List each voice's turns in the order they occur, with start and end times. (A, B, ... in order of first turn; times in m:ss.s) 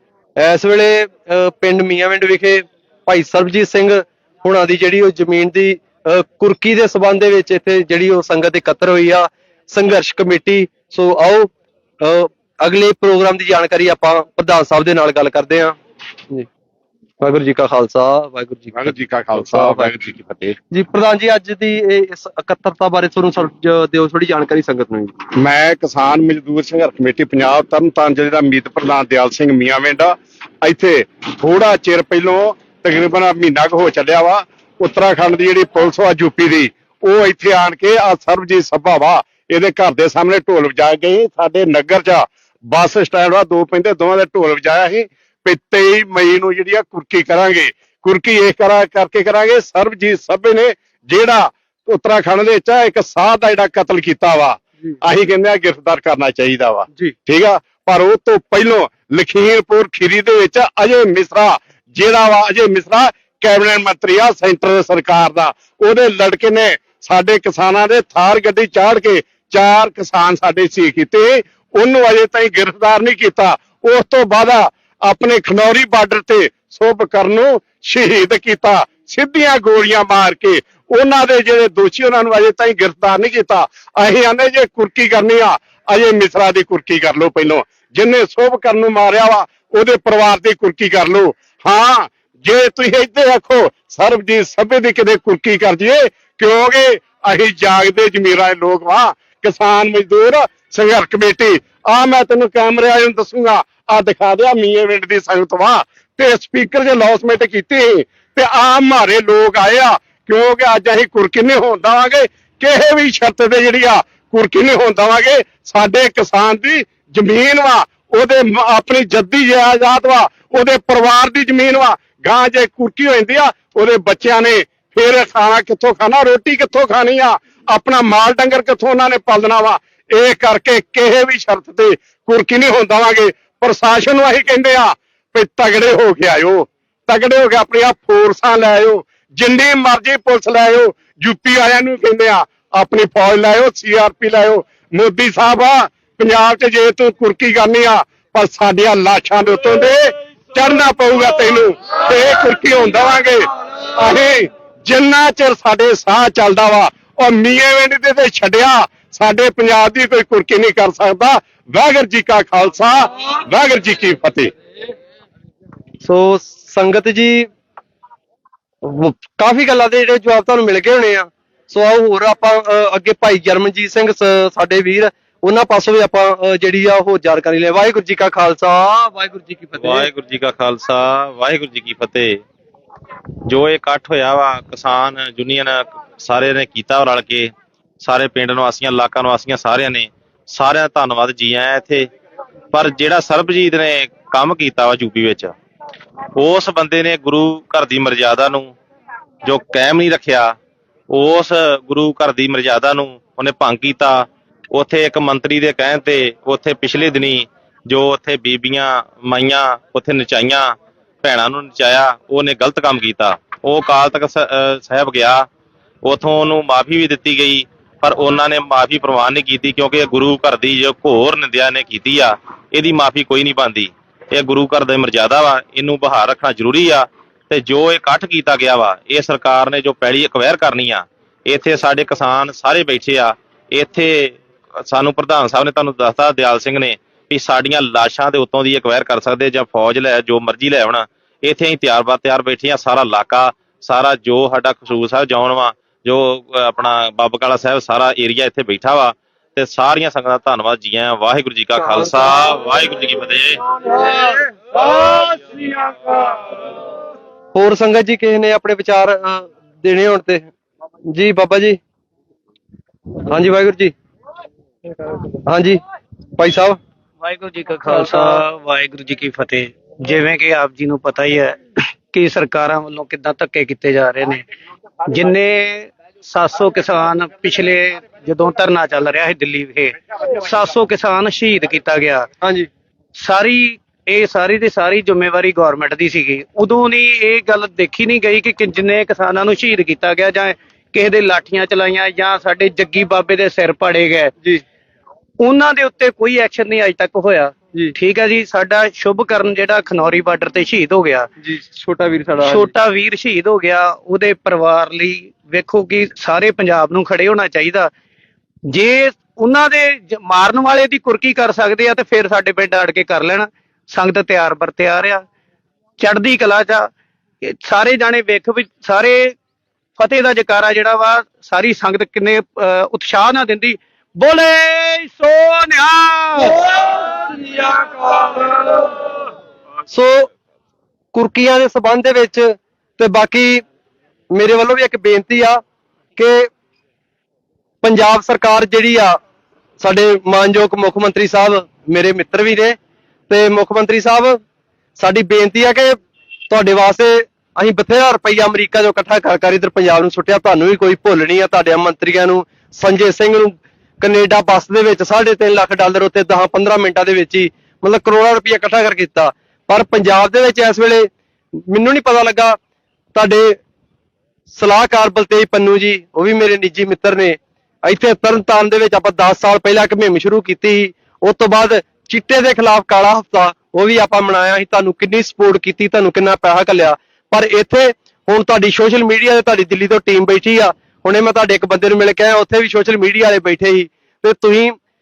0:00.4-0:15.8 A
0:17.2-0:19.9 A
0:18.7-0:20.6 B
0:20.7-0:25.1 A
0:25.4-2:30.0 B
2:30.5-2:44.5 B
2:46.0-2:47.5 A
2:48.8-3:00.1 A
2:59.8-3:02.4 C
3:03.5-3:12.1 C
3:12.7-3:15.6 C
3:16.4-3:18.7 C
3:19.4-3:20.5 C
3:21.1-3:35.4 C
3:36.0-4:13.6 C
4:14.0-4:14.3 A
4:15.0-4:15.4 A
4:17.5-4:20.5 A
4:21.1-4:21.8 A
4:23.3-4:23.9 A
4:25.4-4:25.8 A
4:26.4-4:26.8 A
4:27.2-4:31.6 D
4:27.9-4:28.4 A
4:32.1-4:34.4 D
4:35.0-4:42.3 D
4:42.4-4:42.7 A
4:43.2-4:54.3 D
4:55.4-5:01.3 D
5:01.4-5:02.7 A
5:02.4-5:07.9 D
5:08.7-5:15.2 D
5:16.0-5:16.9 D
5:17.4-5:19.3 D
5:20.0-5:26.7 D
5:29.9-5:30.3 A
5:31.1-5:33.6 A
5:34.3-5:35.6 A
5:36.2-5:36.5 A
5:37.8-5:39.2 A
5:39.8-5:42.8 A
5:43.3-5:44.4 A
5:45.0-5:46.0 A
5:46.5-6:02.6 A
6:03.1-6:03.6 A
6:04.5-6:24.8 A